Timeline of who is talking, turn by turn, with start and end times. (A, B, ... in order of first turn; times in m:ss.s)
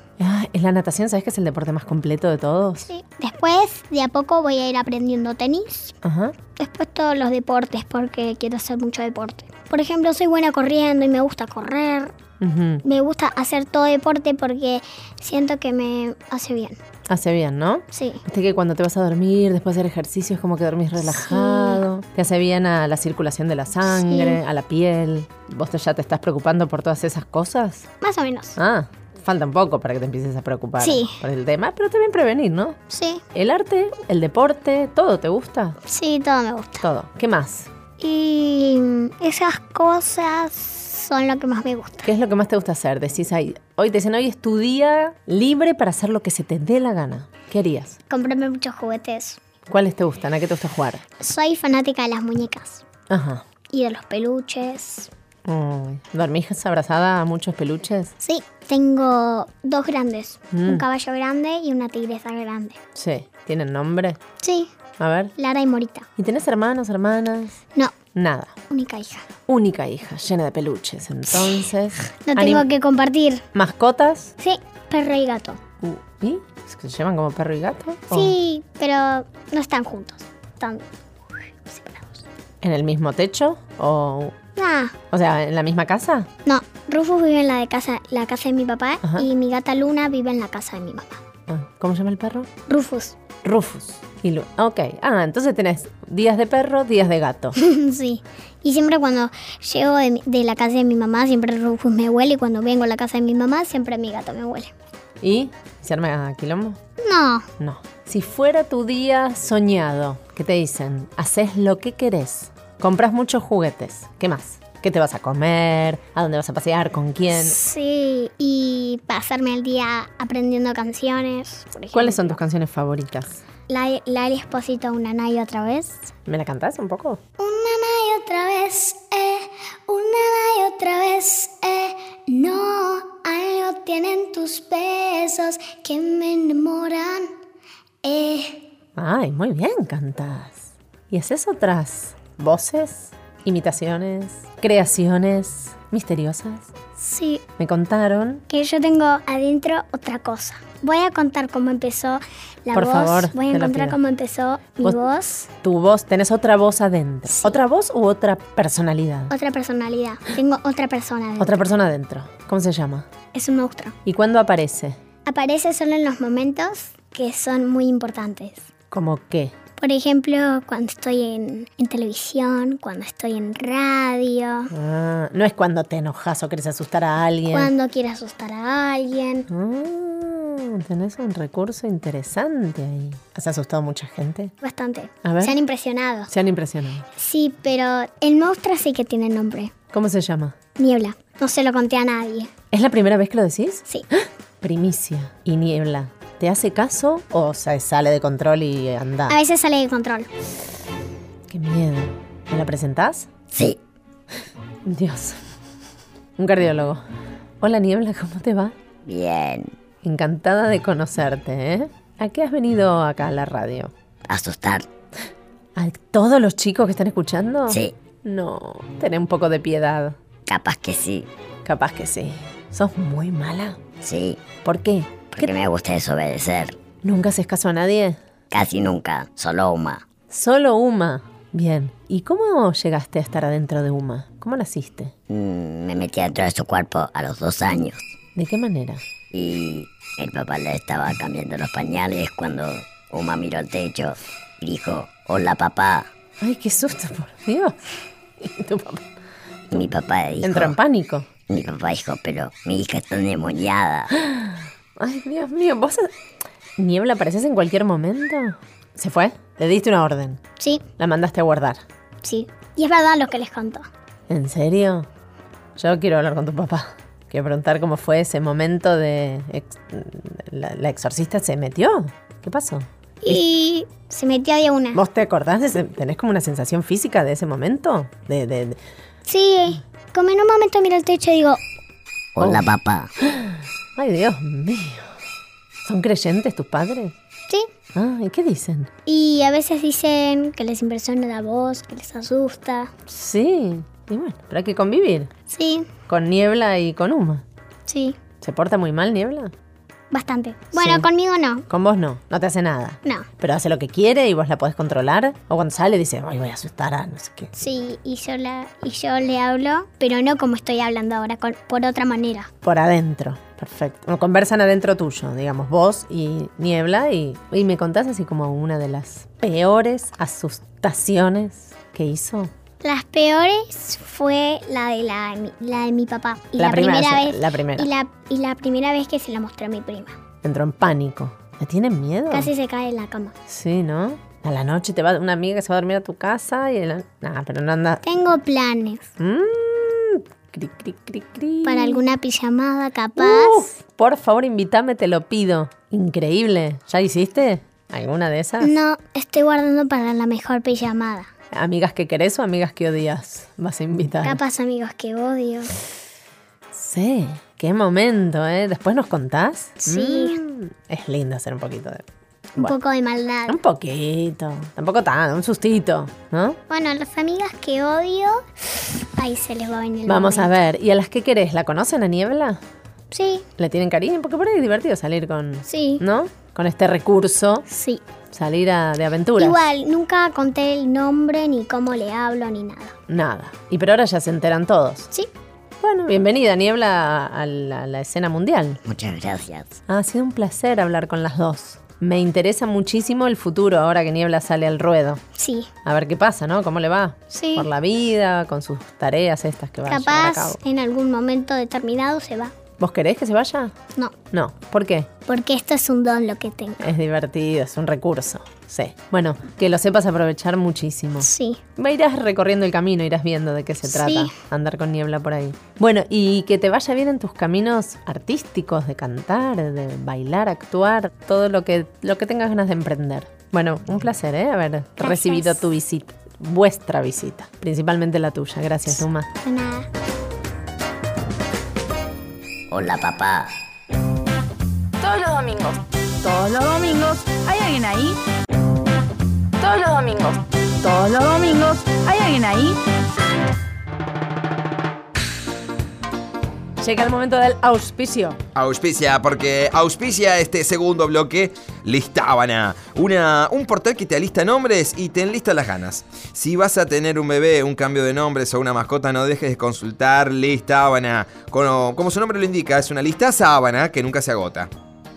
0:00.2-0:02.9 A
0:02.9-0:06.0 B
0:06.0-0:06.4 A
0:06.6-0:12.1 B
0:12.4-0:12.8 A
0:12.8-0:16.8 B
0:17.1-0:27.9 A
0:17.9-0:18.2 B
0:21.0-0:21.8 B
0:23.9-0:24.4 B
0:28.0-0:28.6 B
0:28.6-0:32.8 A
0:30.8-0:31.1 B
0:32.9-0:33.2 B
0:33.4-0:35.8 A
0:35.9-0:36.8 B
0:36.8-0:37.7 A
0:38.0-0:42.1 B
0:42.0-0:48.0 A
0:48.1-0:49.4 B
0:49.7-0:51.0 A
0:51.2-0:52.8 B
0:53.1-0:53.4 A
0:53.7-0:55.1 B
0:55.5-0:58.1 A
0:58.2-1:02.8 B
1:00.5-1:00.8 A
1:03.0-1:04.2 A
1:04.4-1:04.7 B
1:05.0-1:05.3 A
1:05.4-1:06.1 B
1:06.2-1:07.6 A
1:08.2-1:08.5 A
1:08.7-1:09.2 B
1:09.5-1:12.6 A
1:12.3-1:13.4 B
1:13.5-1:14.3 A
1:14.4-1:15.6 B
1:15.8-1:18.3 A
1:18.1-1:20.9 B
1:21.7-1:22.2 B
1:22.6-1:24.3 A
1:24.6-1:25.0 B
1:25.1-1:26.3 A
1:26.5-1:31.2 B
1:31.5-1:32.5 A
1:32.7-1:33.2 B
1:33.4-1:37.6 A
1:37.6-1:44.7 B
1:45.2-1:46.8 A
1:47.0-1:47.5 B
1:47.6-1:57.6 A
1:57.3-2:02.2 B
2:01.9-2:03.4 A
2:03.7-2:06.1 B
2:06.3-2:07.2 A
2:07.4-2:17.3 B
2:18.0-2:18.6 B
2:19.0-2:26.7 A
2:27.0-2:27.4 B
2:27.6-2:28.4 A
2:28.5-2:35.5 B
2:32.7-2:34.0 A
2:35.6-2:39.3 A
2:37.3-2:37.6 B
2:39.3-2:41.6 B
2:41.4-2:43.1 A
2:43.3-2:44.0 B
2:44.0-2:45.0 A
2:45.3-2:48.7 B
2:48.9-2:49.5 A
2:49.8-2:54.7 B
2:54.7-2:57.7 A
2:57.5-2:59.5 B
2:59.5-3:04.5 A
3:04.6-3:06.3 B
3:05.2-3:05.6 A
3:06.3-3:07.1 A
3:07.2-3:09.7 B
3:09.9-3:10.6 A
3:10.8-3:12.5 B
3:12.7-3:19.4 A
3:19.3-3:20.3 B
3:21.5-3:23.3 A
3:24.9-3:25.4 A
3:26.4-3:27.0 A
3:27.6-3:28.7 A
3:29.1-3:29.7 C
3:30.0-3:33.9 A
3:34.3-3:34.9 C
3:35.8-3:40.2 A
3:37.7-3:38.0 C
3:40.5-3:41.3 C
3:41.6-3:43.8 A
3:44.0-3:44.4 C
3:44.6-3:45.5 A
3:45.3-3:46.8 C
3:47.0-3:48.2 A
3:48.5-3:50.0 C
3:50.3-3:55.1 A
3:55.3-3:58.1 C
3:58.4-3:59.0 A
3:59.3-4:06.1 C
4:06.4-4:07.8 A
4:08.4-4:09.0 A
4:09.7-4:10.8 C
4:10.4-4:11.3 A
4:11.5-4:14.1 C
4:14.1-4:16.1 A
4:16.8-4:20.4 A
4:20.6-4:20.8 B
4:21.0-4:21.8 A
4:22.2-4:23.9 B
4:24.3-4:25.1 A
4:25.8-4:33.4 A
4:33.2-4:35.0 B
4:35.0-4:38.8 A
4:39.3-4:41.6 B
4:42.4-4:43.1 C
4:42.4-4:42.7 A
4:43.2-4:45.1 A
4:45.8-4:47.1 A
4:48.0-4:48.9 A
4:49.1-4:52.9 B
4:53.1-4:55.3 A
4:55.5-4:55.9 B
4:56.1-4:57.4 A
4:57.9-4:58.2 B
4:58.4-4:59.5 A
5:00.1-5:01.7 B
5:00.8-5:01.1 A
5:01.7-5:07.5 A
5:07.6-5:12.5 B
5:12.6-5:22.5 A
5:22.8-5:30.2 B
5:26.6-5:27.9 A
5:30.4-5:32.5 A
5:32.3-5:33.4 B
5:33.5-5:38.0 A
5:38.0-5:39.1 B
5:39.2-5:42.0 A
5:41.6-5:43.6 B
5:43.2-5:48.7 A
5:48.6-5:51.3 B
5:51.5-5:54.4 A
5:54.2-5:55.8 B
5:56.7-6:02.0 A
5:59.8-6:00.4 B
6:02.6-6:03.6 B
6:03.5-6:06.6 A
6:06.7-6:08.4 B
6:09.2-6:10.5 B
6:10.1-6:12.6 A
6:13.1-6:13.5 B
6:13.6-6:17.7 A
6:15.7-6:16.0 B
6:17.7-6:18.0 B
6:18.3-6:19.6 A
6:19.4-6:23.0 B
6:23.1-6:25.1 A
6:25.8-6:28.8 A
6:28.8-6:29.8 C
6:29.9-6:35.2 A
6:35.4-6:35.7 B
6:35.8-6:40.6 A
6:37.3-6:37.7 B
6:39.9-6:42.6 B
6:42.8-6:43.8 A
6:44.3-6:45.1 A
6:45.3-6:46.9 B
6:46.8-7:09.3 A
6:51.2-6:51.6 B
6:53.8-6:54.3 B
7:05.0-7:05.6 B
7:09.4-7:09.9 B
7:12.7-7:13.5 C
7:15.0-7:18.2 D
7:19.6-7:22.8 D
7:26.8-7:28.4 A
7:28.6-7:44.7 E